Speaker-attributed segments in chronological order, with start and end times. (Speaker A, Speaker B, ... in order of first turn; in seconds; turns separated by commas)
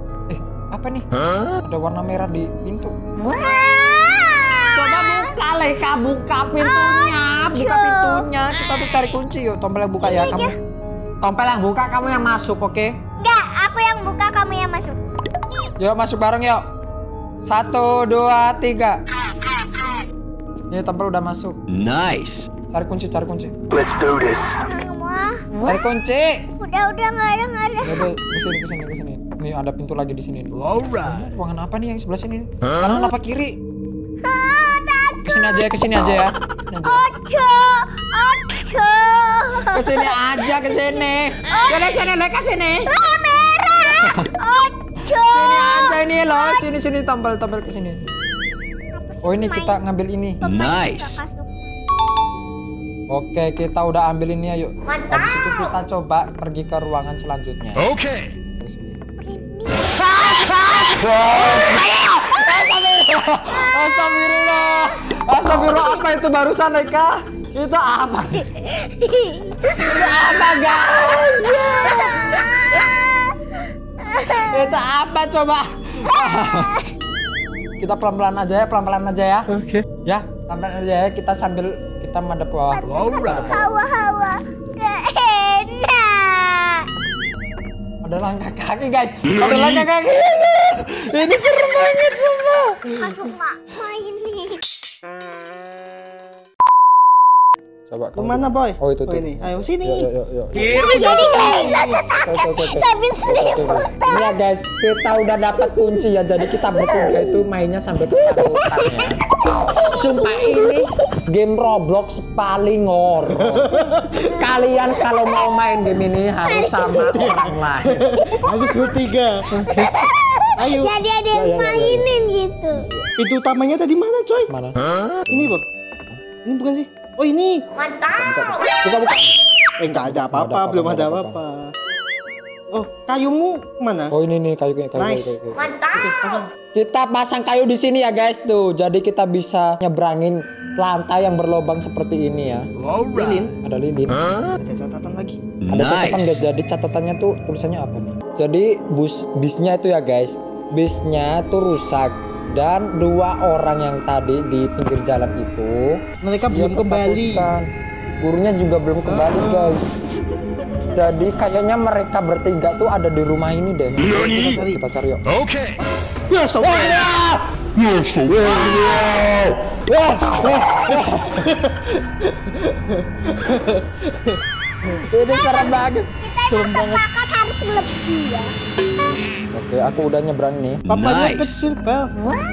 Speaker A: 0.3-1.1, Speaker A: 1.6-2.9, Speaker B: 3.2-5.3, Speaker A: 4.7-10.5, Speaker B: 6.6-8.3, Speaker B: 10.0-10.6, Speaker A: 11.2-12.9, Speaker B: 13.2-15.0, Speaker A: 15.8-16.6, Speaker A: 17.4-19.0, Speaker A: 20.7-21.6, Speaker C: 21.7-22.5, Speaker A: 22.7-23.5, Speaker B: 24.5-25.5, Speaker A: 25.6-26.5, Speaker B: 26.6-28.1, Speaker A: 27.8-33.6, Speaker B: 34.2-35.6, Speaker A: 35.2-37.0, Speaker B: 36.8-40.9, Speaker A: 39.6-42.9, Speaker B: 41.5-42.1, Speaker B: 42.9-46.6, Speaker A: 43.8-44.3, Speaker A: 45.2-48.1, Speaker B: 48.9-49.8, Speaker A: 49.2-50.4, Speaker B: 50.4-51.7, Speaker C: 50.4-51.1, Speaker A: 53.1-59.0, Speaker B: 54.9-55.7, Speaker B: 59.2-60.0, Speaker A: 60.0-68.5, Speaker B: 68.6-70.1, Speaker A: 69.6-72.8, Speaker B: 71.6-74.6, Speaker A: 74.4-76.7, Speaker B: 76.1-76.9, Speaker A: 77.8-83.7, Speaker B: 82.7-86.9, Speaker A: 88.0-93.1, Speaker B: 92.9-94.6, Speaker A: 97.9-100.8, Speaker D: 98.2-102.0, Speaker B: 100.5-104.4, Speaker A: 102.2-109.2, Speaker B: 106.6-107.3, Speaker B: 108.8-110.8, Speaker A: 109.8-118.1, Speaker D: 113.5-114.2, Speaker B: 116.5-117.2, Speaker D: 117.0-119.7, Speaker B: 119.6-122.8, Speaker D: 120.6-120.9, Speaker A: 121.3-122.1, Speaker A: 122.8-123.1, Speaker D: 123.2-124.5, Speaker A: 124.5-125.5, Speaker D: 125.3-125.6, Speaker D: 126.4-127.7, Speaker B: 127.8-128.2, Speaker A: 128.1-129.3, Speaker D: 129.8-131.7, Speaker A: 129.9-131.4, Speaker D: 132.7-134.1, Speaker A: 134.1-136.1, Speaker D: 135.0-135.4, Speaker B: 135.6-135.9, Speaker D: 135.9-136.5, Speaker A: 136.7-142.7, Speaker D: 142.9-143.6, Speaker A: 143.6-144.2, Speaker D: 144.6-145.4, Speaker C: 145.7-146.4, Speaker A: 145.7-157.7, Speaker D: 156.2-157.5, Speaker A: 158.2-159.9, Speaker D: 159.0-159.7, Speaker A: 160.9-165.2, Speaker D: 163.9-164.8, Speaker D: 166.3-167.2, Speaker A: 166.6-167.4, Speaker A: 168.2-169.2, Speaker A: 169.9-171.5, Speaker D: 171.6-174.4, Speaker A: 175.1-176.1, Speaker B: 175.1-178.5, Speaker D: 176.5-177.0, Speaker A: 179.5-180.8, Speaker C: 180.9-181.5, Speaker D: 180.9-182.1